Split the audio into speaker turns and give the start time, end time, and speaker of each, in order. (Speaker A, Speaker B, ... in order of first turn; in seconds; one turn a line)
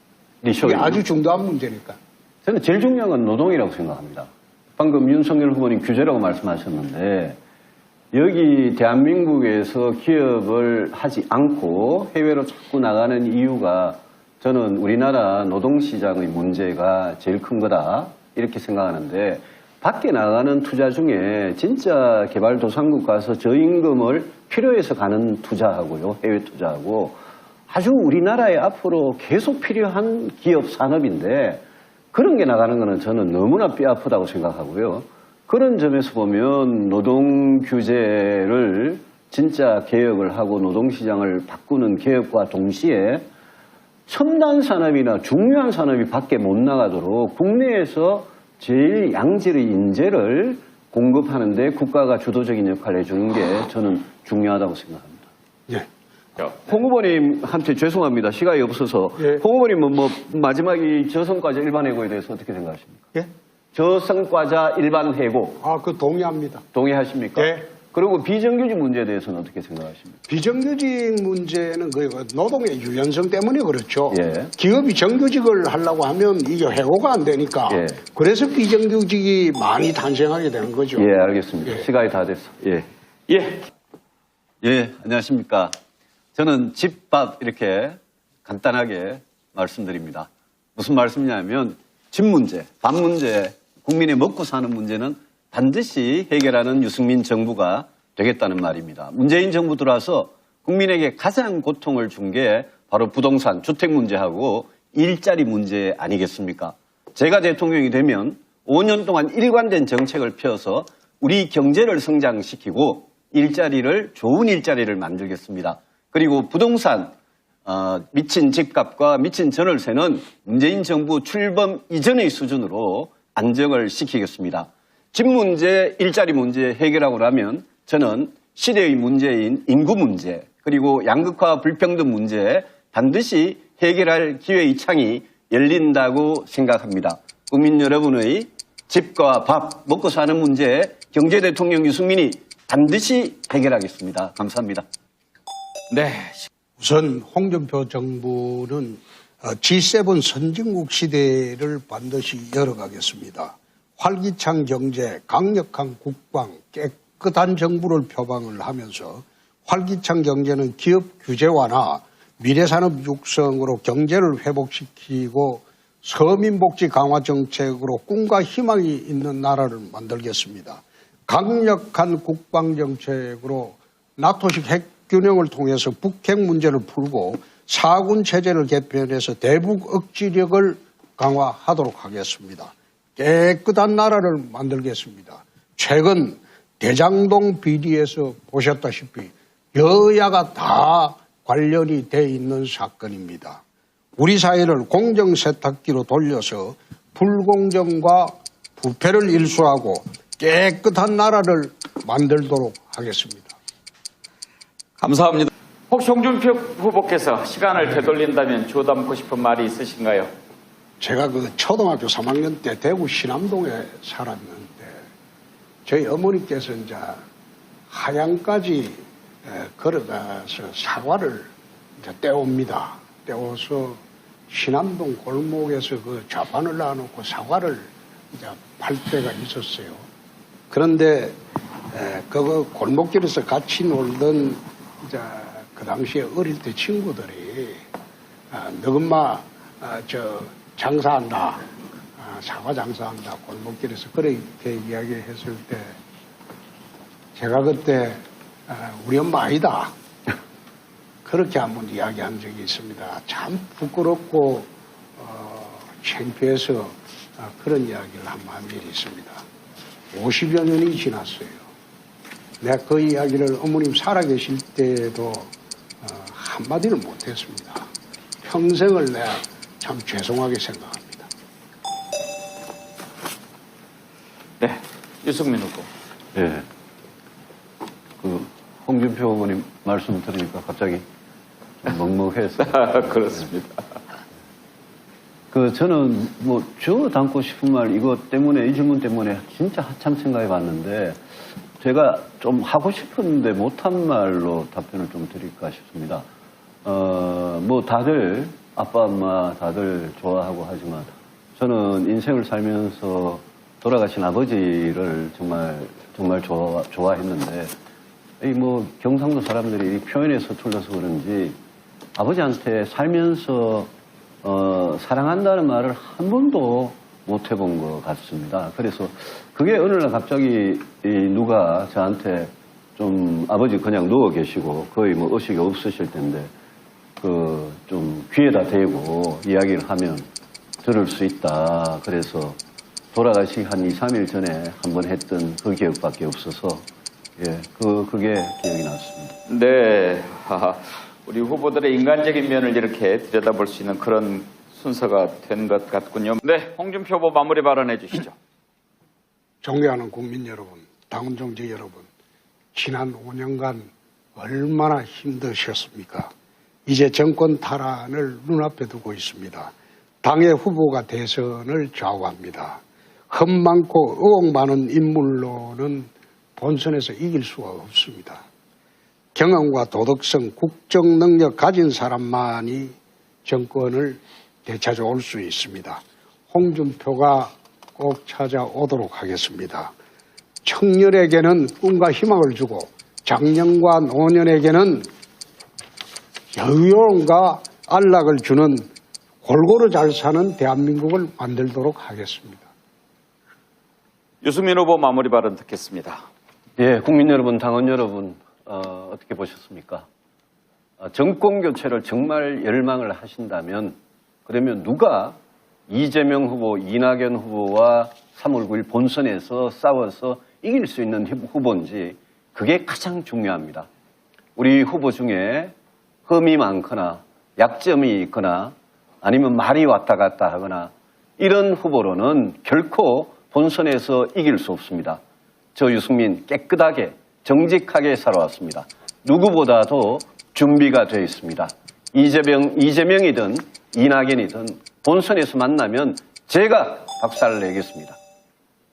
Speaker A: 0.4-1.0
Speaker B: 0.6-2.0
Speaker A: 2.5-7.4
Speaker A: 8.1-43.2
Speaker A: 44.1-55.3
Speaker A: 56.6-65.6
Speaker B: 65.6-66.7
Speaker A: 66.7-70.2
Speaker B: 67.4-67.7
Speaker B: 70.3-81.1
Speaker A: 74.1-74.5
Speaker A: 77.7-78.0
Speaker A: 81.0-82.9
Speaker C: 83.3-83.7
Speaker A: 84.6-85.8
Speaker A: 86.4-117.1
Speaker A: 117.7-144.8
Speaker C: 145.9-146.5
Speaker B: 146.8-193.6
Speaker B: 194.2-203.6
Speaker C: 205.0-210.3
Speaker B: 211.0-215.1
Speaker B: 215.9-217.2
Speaker B: 217.9-230.0
Speaker B: 230.7-231.4
Speaker B: 231.9-237.8
Speaker B: 238.5-241.6
Speaker B: 242.2-246.0
Speaker B: 247.3-249.9
Speaker B: 251.2-259.4
Speaker B: 260.1-261.7
Speaker B: 262.6-265.5
Speaker B: 266.0-267.9
Speaker B: 268.4-271.3
Speaker C: 274.6-275.9
Speaker A: 276.4-276.7
Speaker A: 278.2-281.0
Speaker A: 281.8-283.4
Speaker C: 282.6-283.8
Speaker A: 285.5-291.2
Speaker A: 291.8-296.2
Speaker A: 296.9-307.7
Speaker A: 308.4-311.6
Speaker A: 312.2-313.9
Speaker A: 314.4-326.5
Speaker A: 327.2-330.3
Speaker A: 330.8-332.6
Speaker A: 333.1-336.8
Speaker A: 337.4-339.4
Speaker C: 339.5-348.4
Speaker B: 349.6-352.1
Speaker B: 352.7-356.3
Speaker B: 356.9-368.4
Speaker B: 369.4-379.9
Speaker B: 380.6-385.1
Speaker B: 386.5-388.9
Speaker B: 389.4-392.7
Speaker C: 394.4-396.2
Speaker A: 396.8-400.1
Speaker A: 401.0-405.4
Speaker A: 405.9-413.9
Speaker A: 414.6-415.7
Speaker A: 416.3-425.2
Speaker A: 425.8-438.2